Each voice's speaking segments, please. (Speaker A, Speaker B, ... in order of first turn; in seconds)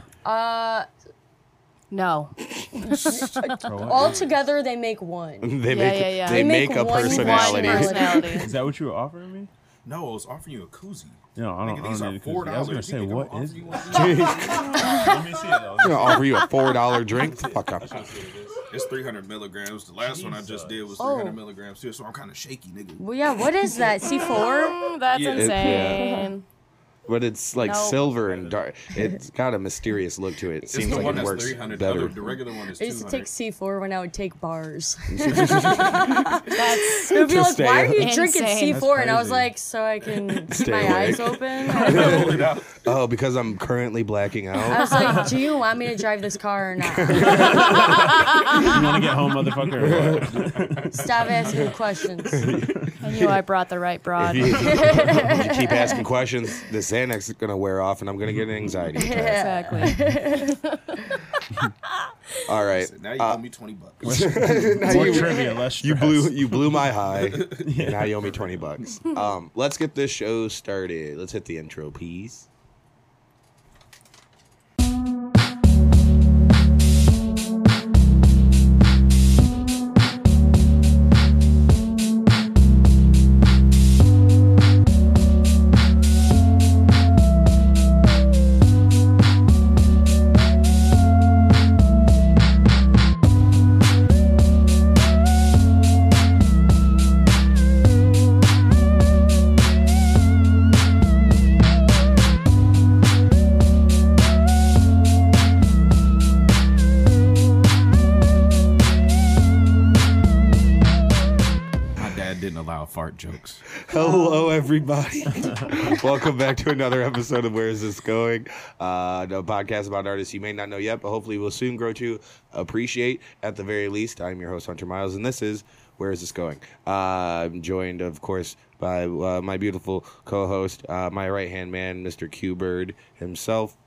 Speaker A: 0.2-0.9, 2.8-5.5, 6.3-8.4, 14.8-15.2, 23.0-24.9, 25.8-26.3, 30.9-31.2, 32.8-42.4, 44.7-48.0, 50.9-52.5, 54.6-56.0, 59.0-60.5, 64.9-65.5, 114.0-114.5
Speaker B: 1.9-3.5, 5.7-8.5, 14.6-15.1, 21.0-21.4, 24.1-26.4, 27.6-28.0, 36.5-37.3, 38.0-38.8, 53.0-54.8, 59.1-61.0
Speaker C: 3.6-4.3, 8.3-9.5, 11.3-14.1, 14.9-16.3, 17.4-18.6, 20.0-20.8, 28.3-28.5, 38.7-39.5, 48.5-51.1, 58.4-58.9, 64.0-66.7, 67.6-68.2
Speaker D: 5.4-8.1, 13.9-14.7, 15.8-18.0, 25.3-26.1, 27.1-32.3, 35.1-36.4, 37.1-38.1, 40.5-45.3, 46.9-48.0, 49.8-50.4, 52.4-52.9, 54.2-59.4, 62.5-63.4, 64.0-72.5, 113.8-133.8
Speaker E: 9.8-15.0, 18.7-23.0, 25.1-26.0, 30.6-33.3, 41.8-42.8, 62.7-64.3, 67.2-67.6, 112.0-113.6